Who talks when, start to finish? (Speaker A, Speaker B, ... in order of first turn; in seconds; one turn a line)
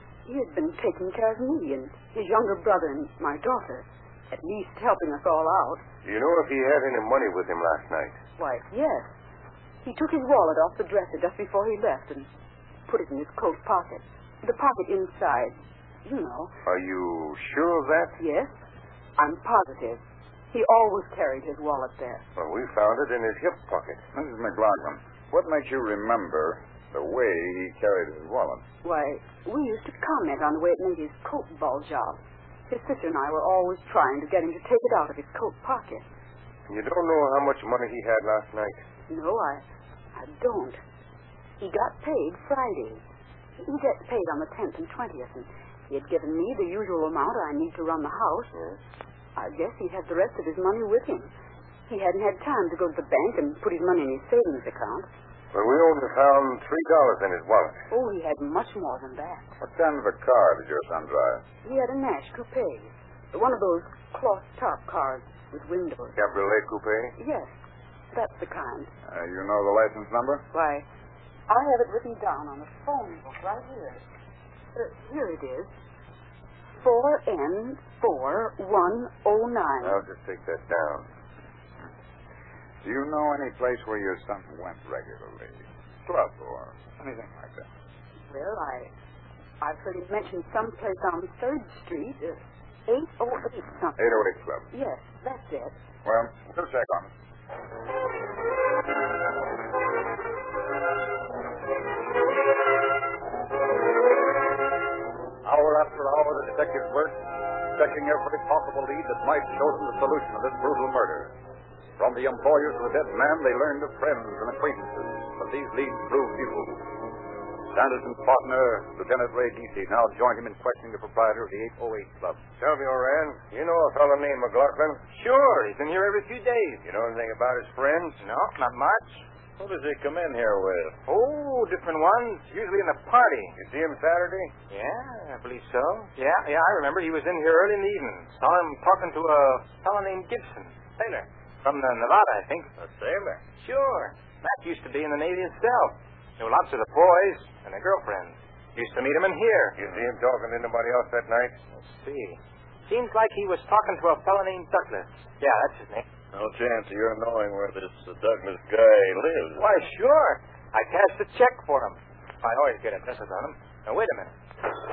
Speaker A: 0.3-5.8
Speaker B: 6.0-8.2
Speaker A: 8.4-9.1
Speaker A: 9.8-12.3
Speaker A: 12.9-15.5
Speaker A: 16.1-16.5
Speaker B: 16.7-18.1
Speaker A: 18.2-18.5
Speaker A: 19.2-22.2
Speaker B: 22.4-24.0
Speaker C: 24.1-28.6
Speaker A: 28.8-36.0
Speaker B: 36.7-38.8
Speaker A: 39.1-39.6
Speaker A: 40.1-40.8
Speaker A: 41.6-43.0
Speaker A: 43.6-48.5
Speaker A: 49.4-51.3
Speaker A: 51.9-55.1
Speaker B: 55.5-57.8
Speaker A: 57.9-59.5
Speaker C: 59.6-61.4
Speaker A: 61.6-66.2
Speaker B: 66.2-67.1
Speaker A: 67.2-67.5
Speaker A: 68.1-68.9
Speaker C: 69.1-70.4
Speaker A: 70.5-70.8
Speaker A: 71.5-74.0
Speaker A: 74.8-75.7
Speaker A: 76.8-80.0
Speaker B: 79.8-81.1
Speaker C: 82.8-87.7
Speaker A: 88.3-88.9
Speaker A: 89.6-94.0
Speaker C: 94.0-94.7
Speaker A: 94.7-95.8
Speaker C: 96.0-97.1
Speaker D: 105.5-107.2
Speaker D: 107.8-111.3
Speaker D: 112.0-116.8
Speaker D: 117.7-122.4
Speaker B: 122.6-125.0
Speaker E: 125.1-126.8
Speaker B: 126.8-128.2
Speaker E: 128.2-129.2
Speaker F: 129.6-131.0
Speaker E: 131.1-133.6
Speaker B: 133.6-134.5
Speaker E: 134.7-142.7
Speaker F: 142.8-143.4
Speaker E: 143.6-149.8
Speaker B: 149.8-151.6
Speaker E: 151.8-156.1
Speaker F: 156.3-159.6
Speaker E: 159.6-164.3